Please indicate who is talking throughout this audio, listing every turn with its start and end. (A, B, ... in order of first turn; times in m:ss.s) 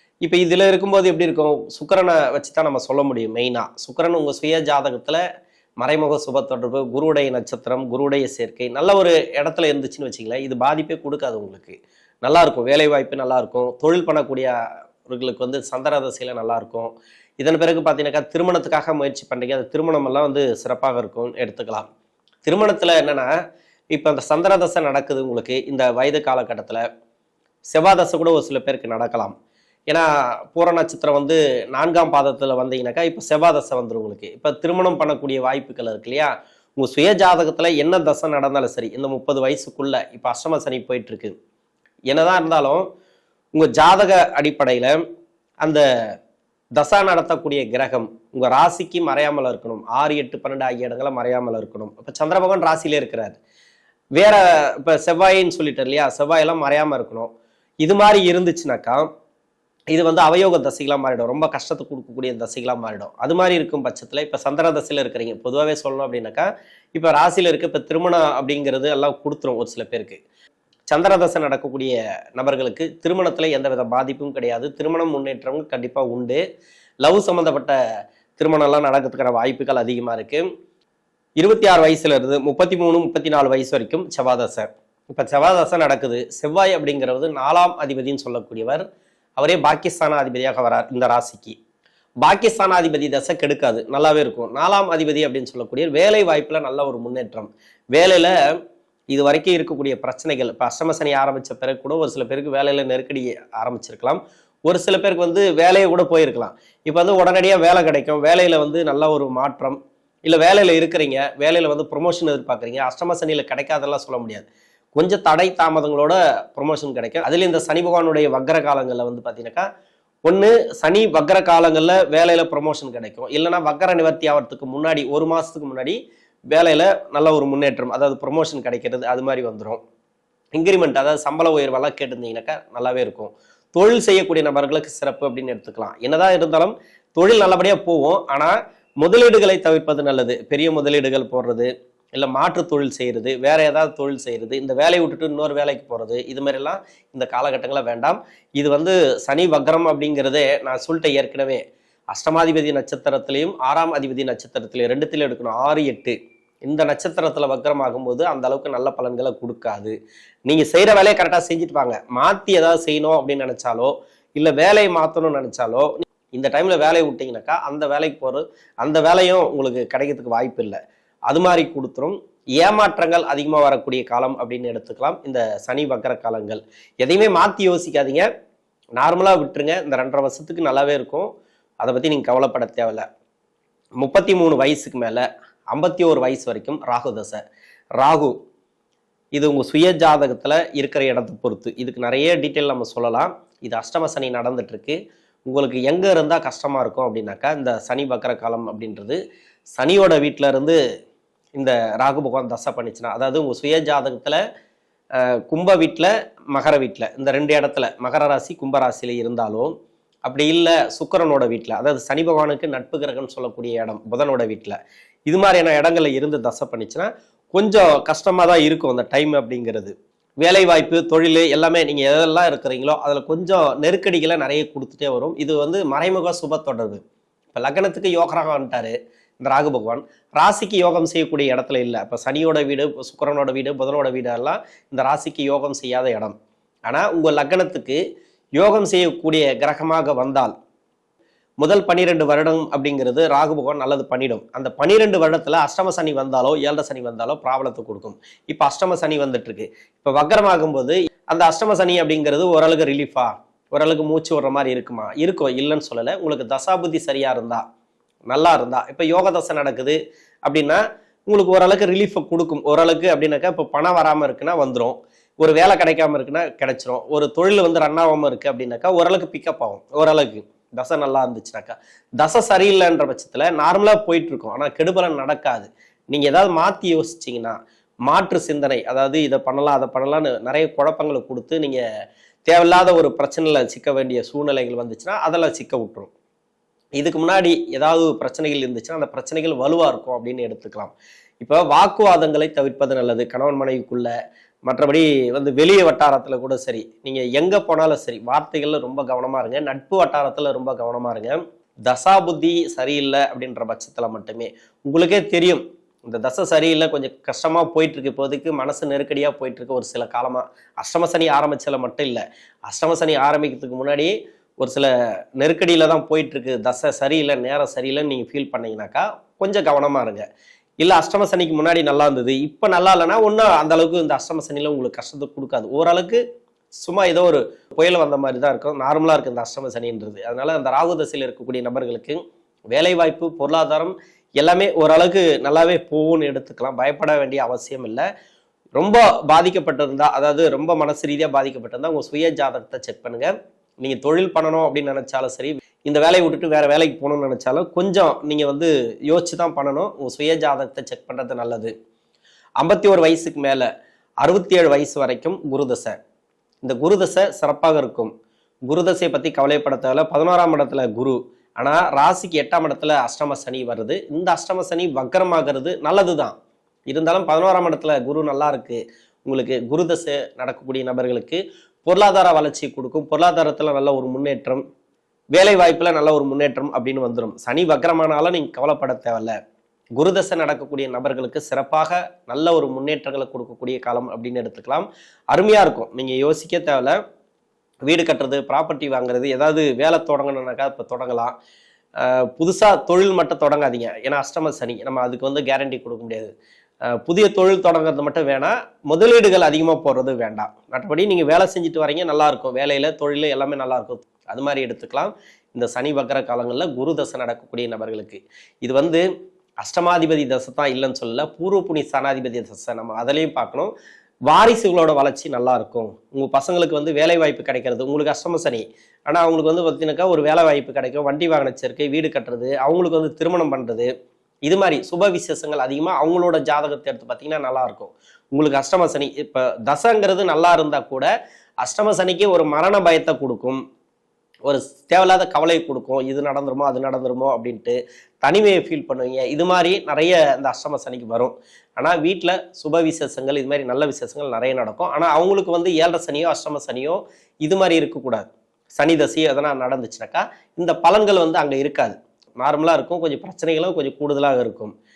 0:00.2-0:05.2 A
0:05.8-0:14.5 A
0:15.1-0:21.9 A
0:22.5-0:23.3 A
0:23.9-0:26.8 A
0:27.7-0:29.3 A
0:29.9-0:41.3 A
0:42.1-0:42.9 A
0:43.6-0:45.0 A
0:46.8-0:53.4 A
0:54.2-0:57.3 A
0:57.8-0:59.1 A
0:59.9-1:10.2 A
1:10.9-1:16.4 A
1:17.0-1:17.8 A
1:18.4-1:20.4 A
1:21.4-1:28.8 A
1:29.4-1:31.6 A
1:32.2-1:38.3 A
1:39.1-1:59.7 A
2:00.3-2:06.0 A
2:06.5-2:09.8 A
2:10.6-2:31.6 A
2:32.1-2:39.9 A
2:40.5-2:50.8 A
2:51.3-2:58.3 A
2:59.0-3:01.3 A
3:01.8-3:03.0 A
3:04.0-3:07.4 A
3:08.0-3:08.4 A
3:09.4-3:15.0 A
3:15.5-3:19.2 A
3:19.8-3:20.8 A
3:21.6-3:24.4 A
3:25.5-3:29.7 A
3:30.3-3:34.8 A
3:35.3-3:47.0 A
3:47.5-3:56.4 A
3:56.9-3:58.0 A
3:58.6-4:00.5 A
4:01.6-4:17.6 A
4:18.3-4:37.6 A
4:38.1-4:41.8 A
4:42.5-4:46.1 A
4:47.0-4:54.1 A
4:54.7-5:20.2 A
5:20.8-5:26.2 A
5:26.8-5:32.2 A
5:32.7-5:38.1 A
5:38.8-5:43.3 A
5:43.8-5:51.7 A
5:52.6-5:53.7 A
5:54.2-5:56.0 A
5:56.6-5:58.1 A
5:58.7-6:06.3 A
6:06.9-6:14.6 A
6:15.4-6:19.4 A
6:20.0-6:27.0 A
6:27.9-6:31.3 A
6:32.0-6:36.3 A
6:36.9-6:49.0 A
6:49.6-6:53.7 A
6:54.3-7:03.9 A
7:04.5-7:11.1 A
7:11.6-7:13.6 A
7:14.5-7:28.2 A
7:28.8-7:34.7 A